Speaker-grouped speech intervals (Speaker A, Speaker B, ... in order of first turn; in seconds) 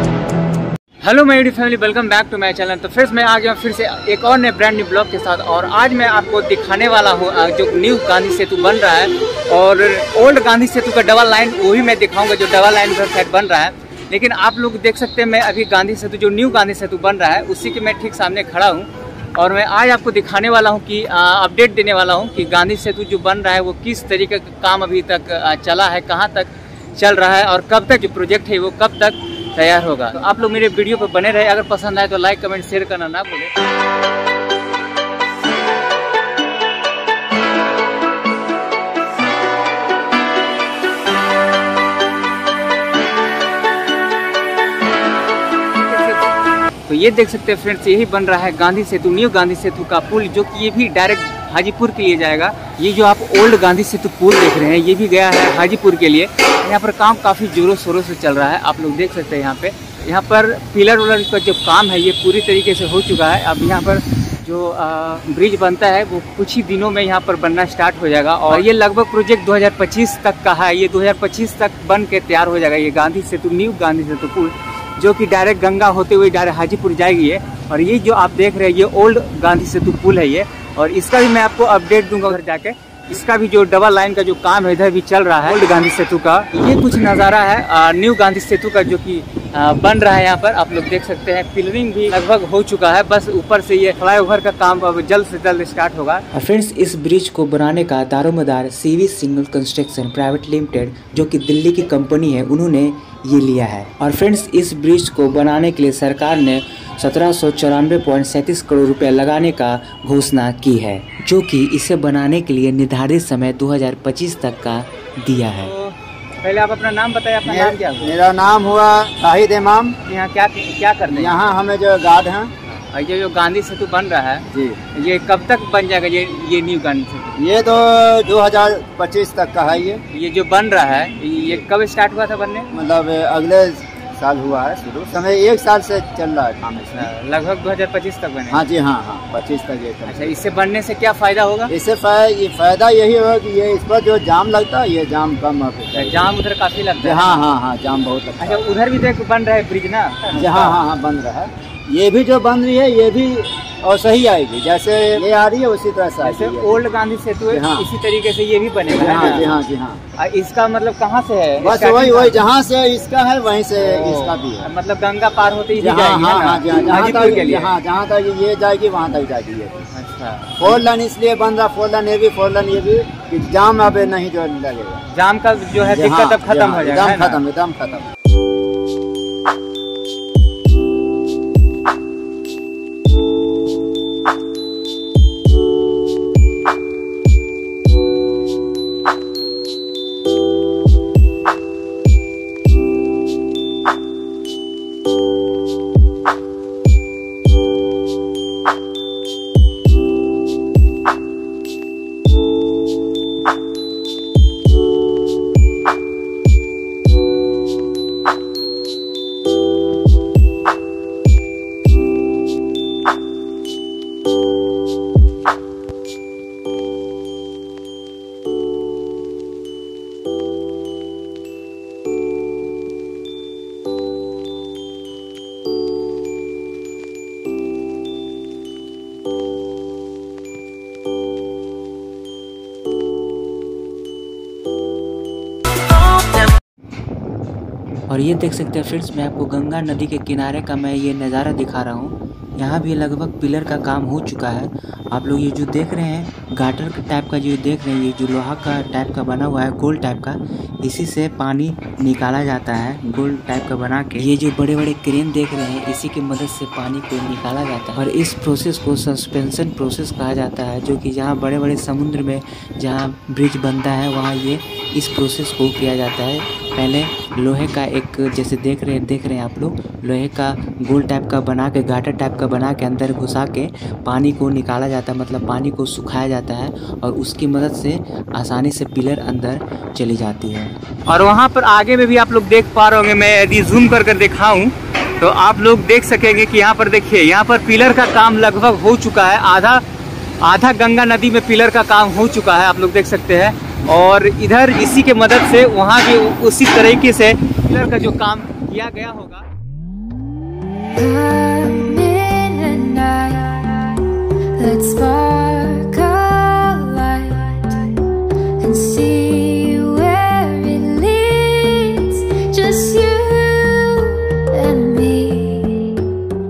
Speaker A: 1.0-33.5, 45.8-96.2, 115.6-118.2, 120.0-121.4, 122.9-127.4, 130.1-132.7, 136.9-138.6, 140.1-141.7, 145.9-147.4, 148.4-150.8, 156.2-159.5, 160.2-162.4, 163.8-167.7, 169.9-170.7, 175.1-177.4, 281.1-289.8, 290.4-299.4
Speaker B: 96.3-115.7, 238.1-280.8
Speaker C: 117.4-120.0, 121.1-122.5, 124.5-124.8, 127.3-130.0, 131.3-131.6, 132.7-137.1, 138.5-140.4, 141.7-146.3, 147.0-148.8, 150.3-156.8, 157.5-157.9, 158.9-160.0, 161.6-164.7, 165.8-169.8, 170.6-175.0, 175.8-178.1
Speaker D: 300.9-316.1